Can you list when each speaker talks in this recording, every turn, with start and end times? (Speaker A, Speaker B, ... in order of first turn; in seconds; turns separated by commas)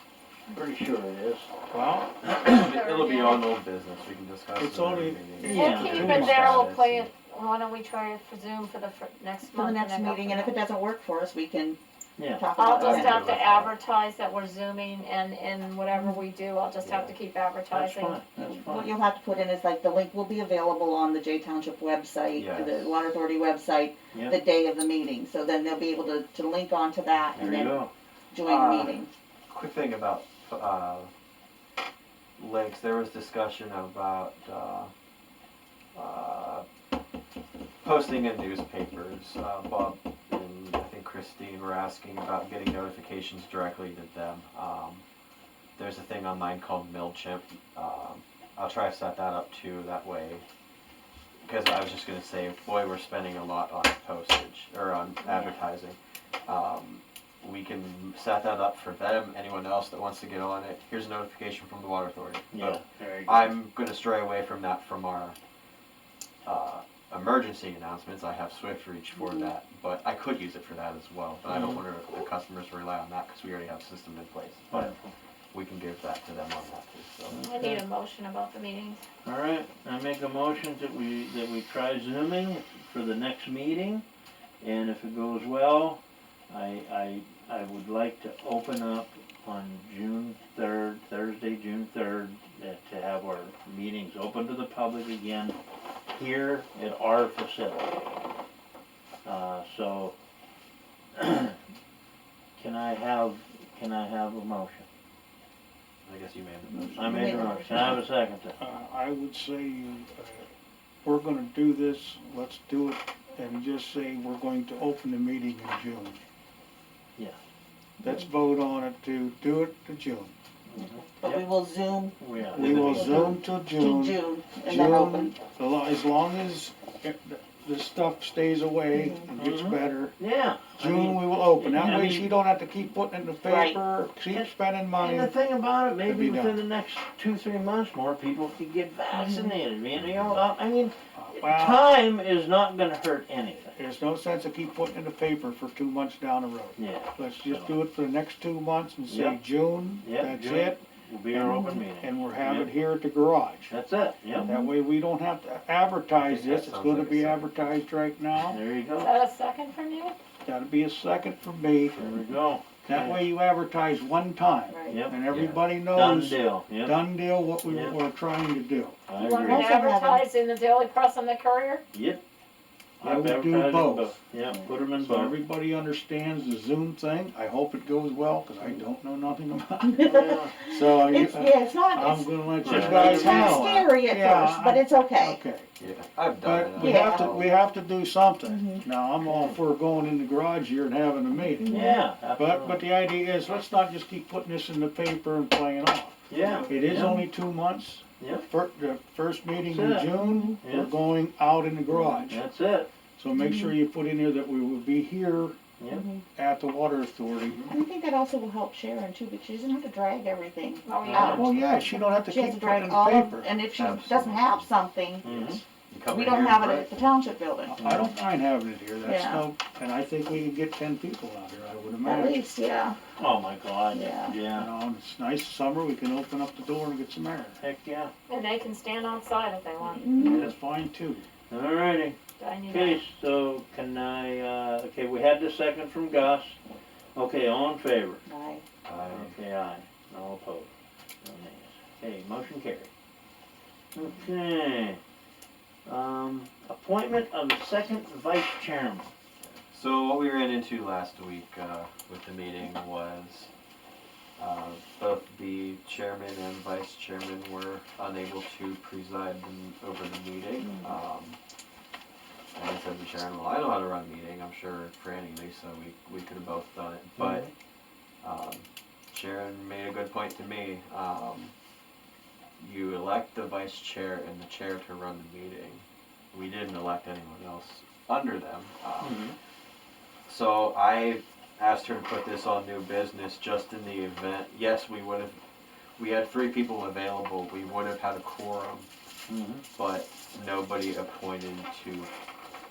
Speaker A: 0.5-1.5, Speaker B: 1.7-2.1, Speaker C: 2.4-7.1, Speaker D: 2.5-3.5, Speaker B: 4.6-6.7, Speaker D: 5.5-10.6, Speaker A: 5.5-6.2, Speaker E: 9.5-11.8, Speaker A: 12.2-12.5, Speaker E: 12.4-13.3, Speaker D: 12.6-18.2, Speaker C: 12.8-13.7, Speaker C: 16.8-17.1, Speaker A: 17.7-18.9, Speaker E: 18.4-27.8, Speaker C: 22.4-22.9, Speaker A: 24.1-24.4, Speaker A: 27.3-27.9, Speaker E: 28.3-29.1, Speaker C: 28.4-29.0, Speaker C: 29.5-31.1, Speaker C: 32.4-34.9, Speaker C: 36.0-36.6, Speaker C: 37.8-45.0, Speaker C: 45.8-50.4, Speaker C: 51.5-65.4, Speaker D: 55.2-55.6, Speaker A: 62.5-63.5, Speaker C: 66.4-74.9, Speaker E: 69.2-69.5, Speaker A: 71.5-71.8, Speaker A: 74.7-75.1, Speaker C: 75.5-77.4, Speaker A: 77.3-77.8, Speaker D: 77.4-79.0, Speaker A: 79.2-84.0, Speaker A: 84.6-95.6, Speaker A: 96.1-98.0, Speaker A: 99.2-100.2, Speaker A: 101.2-101.6, Speaker A: 102.6-104.9, Speaker C: 106.0-107.2, Speaker E: 106.7-108.0, Speaker A: 107.0-108.5, Speaker B: 108.6-110.5, Speaker B: 111.0-116.2, Speaker B: 118.0-120.3, Speaker A: 120.7-121.5, Speaker E: 120.8-122.2, Speaker A: 122.2-123.4, Speaker B: 122.5-130.2, Speaker E: 122.7-125.3, Speaker E: 128.9-129.3, Speaker A: 129.3-132.3, Speaker B: 130.8-135.3, Speaker E: 133.4-133.8, Speaker A: 134.3-143.8, Speaker B: 136.0-136.6, Speaker E: 139.2-139.5, Speaker C: 139.9-140.4, Speaker B: 141.2-141.8, Speaker B: 143.8-153.7, Speaker A: 146.8-147.7, Speaker A: 149.1-149.4, Speaker A: 150.0-152.7, Speaker A: 153.7-154.5, Speaker E: 154.4-154.7, Speaker B: 154.4-158.6, Speaker C: 156.2-157.5, Speaker A: 158.5-159.1, Speaker D: 159.0-160.2, Speaker B: 160.4-162.0, Speaker A: 161.9-163.2, Speaker B: 162.8-169.0, Speaker E: 164.7-165.0, Speaker A: 164.9-165.2, Speaker C: 165.3-165.6, Speaker A: 165.9-167.0, Speaker A: 167.7-167.9, Speaker A: 169.1-169.8, Speaker D: 169.2-171.8, Speaker E: 169.4-170.2, Speaker A: 171.9-172.2, Speaker A: 173.0-175.3, Speaker B: 173.0-174.1, Speaker B: 175.0-185.7, Speaker E: 179.8-185.4, Speaker A: 180.0-180.5, Speaker A: 182.6-183.7, Speaker C: 185.8-187.5, Speaker B: 186.4-191.8, Speaker E: 186.8-187.3, Speaker E: 188.5-188.8, Speaker A: 189.2-189.6, Speaker E: 191.3-192.0, Speaker A: 191.7-192.8, Speaker B: 192.3-202.4, Speaker A: 196.3-197.2, Speaker C: 196.4-196.8, Speaker E: 196.9-197.2, Speaker A: 198.2-198.4, Speaker A: 199.7-200.9, Speaker A: 202.3-202.9, Speaker B: 203.2-205.6, Speaker E: 203.3-203.8, Speaker A: 205.8-206.0, Speaker E: 205.9-206.2, Speaker B: 206.3-207.7, Speaker C: 207.5-207.7, Speaker E: 207.7-215.5, Speaker D: 210.8-211.5, Speaker A: 211.0-211.5, Speaker B: 211.2-213.5, Speaker C: 213.8-214.7, Speaker A: 215.2-215.6, Speaker B: 215.2-215.6, Speaker C: 215.9-216.9, Speaker E: 216.1-217.8, Speaker B: 217.7-222.4, Speaker A: 217.8-218.1, Speaker E: 219.0-219.4, Speaker E: 222.0-223.0, Speaker A: 223.2-224.7, Speaker E: 223.9-224.3, Speaker B: 224.5-227.6, Speaker A: 227.6-228.1, Speaker D: 228.3-230.2, Speaker E: 229.9-230.5, Speaker B: 230.2-231.2, Speaker A: 230.2-230.5, Speaker A: 231.5-232.2, Speaker D: 232.4-233.0, Speaker A: 232.7-236.6, Speaker A: 237.2-238.2, Speaker E: 238.2-238.7, Speaker C: 238.8-239.4, Speaker A: 239.0-240.7, Speaker A: 241.2-242.9, Speaker A: 243.9-245.0, Speaker A: 245.8-249.1, Speaker C: 249.4-253.5, Speaker C: 254.4-261.4, Speaker C: 262.5-267.5, Speaker A: 267.2-267.5, Speaker C: 268.2-271.5, Speaker C: 272.6-279.3, Speaker A: 279.0-279.4, Speaker C: 280.3-285.4, Speaker C: 286.0-288.9, Speaker A: 289.3-289.6, Speaker C: 289.8-292.1